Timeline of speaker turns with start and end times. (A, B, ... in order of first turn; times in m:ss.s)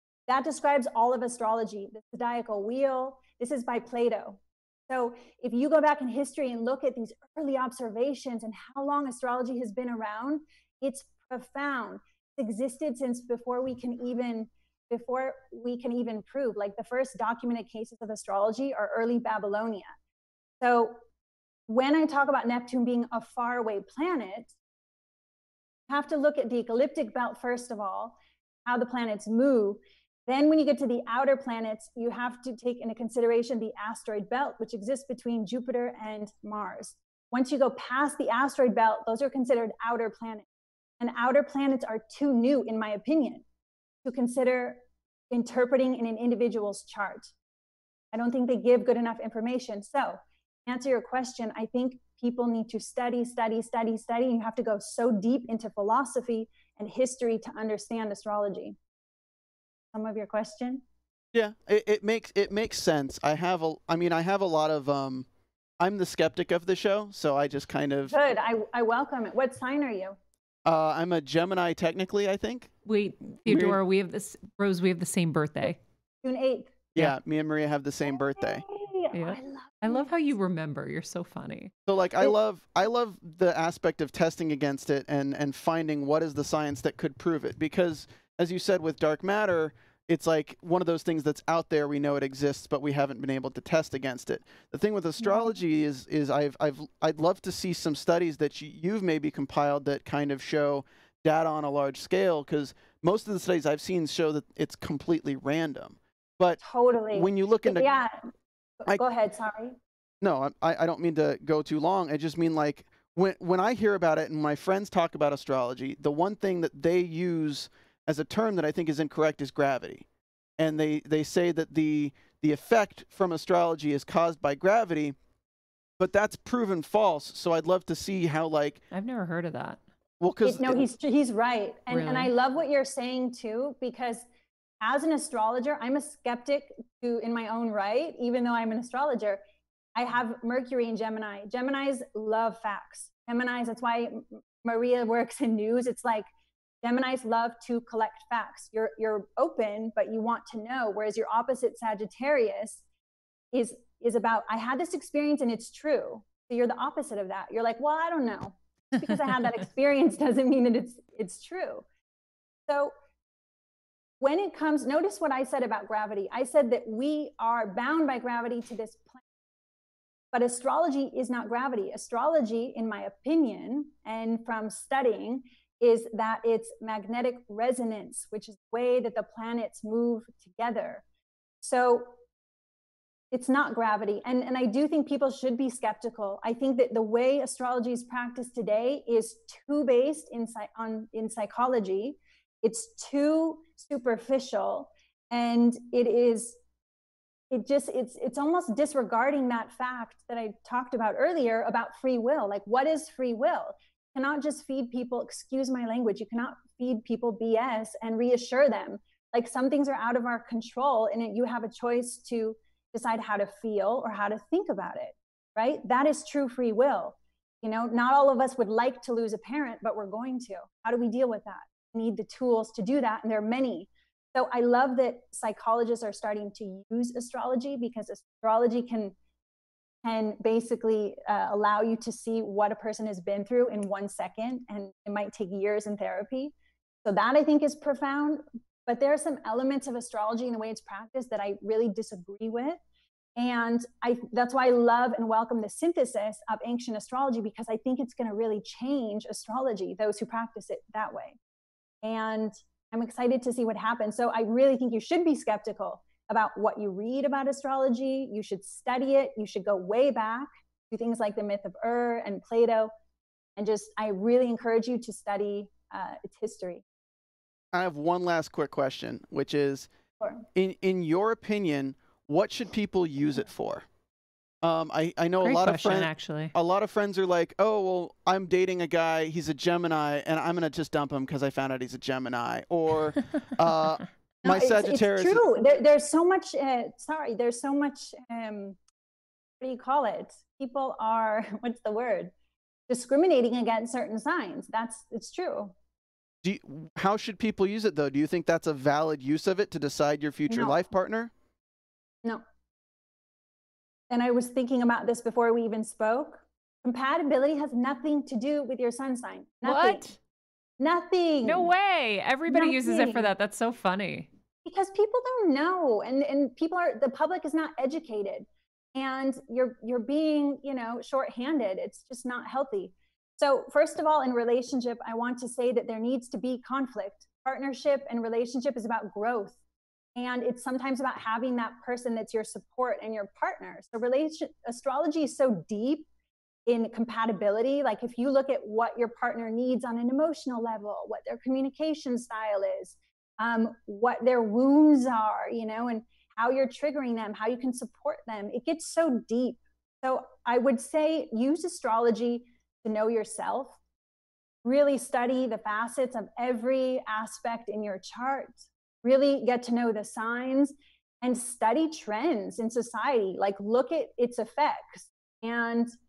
0:00.3-0:19.9 A
0:20.6-0:21.0 A
0:21.7-0:24.5 A
0:25.9-0:40.4 A
0:41.0-0:43.4 A
0:44.0-0:47.3 A
0:48.1-0:58.8 A
0:59.9-1:00.8 A
1:01.3-1:05.3 B
1:05.8-1:08.2 B
1:08.1-1:10.2 A
1:10.6-1:12.7 B
1:12.8-1:15.8 C
1:13.4-1:13.8 B
1:16.2-1:16.8 A
1:17.0-1:18.6 B
1:18.1-1:20.2 A
1:19.1-1:21.7 C
1:21.9-1:46.6 B
1:46.6-1:48.2 A
1:47.1-1:47.9 B
1:48.8-1:49.8 A
1:50.2-2:00.0 B
2:00.6-2:05.2 B
2:06.0-2:08.8 B
2:08.9-2:09.8 C
2:10.2-2:10.8 B
2:10.4-2:14.3 A
2:11.9-2:12.3 C
2:14.8-2:19.4 A
2:20.0-2:26.3 A
2:26.8-2:32.8 A
2:33.5-2:41.8 A
2:44.2-2:49.2 A
2:50.3-3:01.0 A
3:01.6-3:02.2 A
3:03.3-3:16.6 A
3:17.5-3:49.2 A
3:50.0-3:56.5 A
3:57.0-4:02.8 A
4:03.4-4:11.4 A
4:12.0-4:22.9 A
4:23.6-4:26.8 A
4:27.7-4:29.9 B
4:30.6-4:33.9 B
4:34.6-4:45.4 B
4:35.4-4:36.5 C
4:44.4-4:48.8 A
4:49.6-4:52.3 A
4:52.9-4:55.7 A
4:56.4-5:01.3 B
5:00.5-5:00.8 A
5:04.1-5:10.0 A
5:09.6-5:10.2 C
5:10.8-5:11.7 A
5:11.4-5:14.3 C
5:12.5-5:13.3 A
5:14.6-5:29.6 A
5:30.2-5:36.1 A
5:36.7-5:53.8 A
5:54.6-6:05.9 A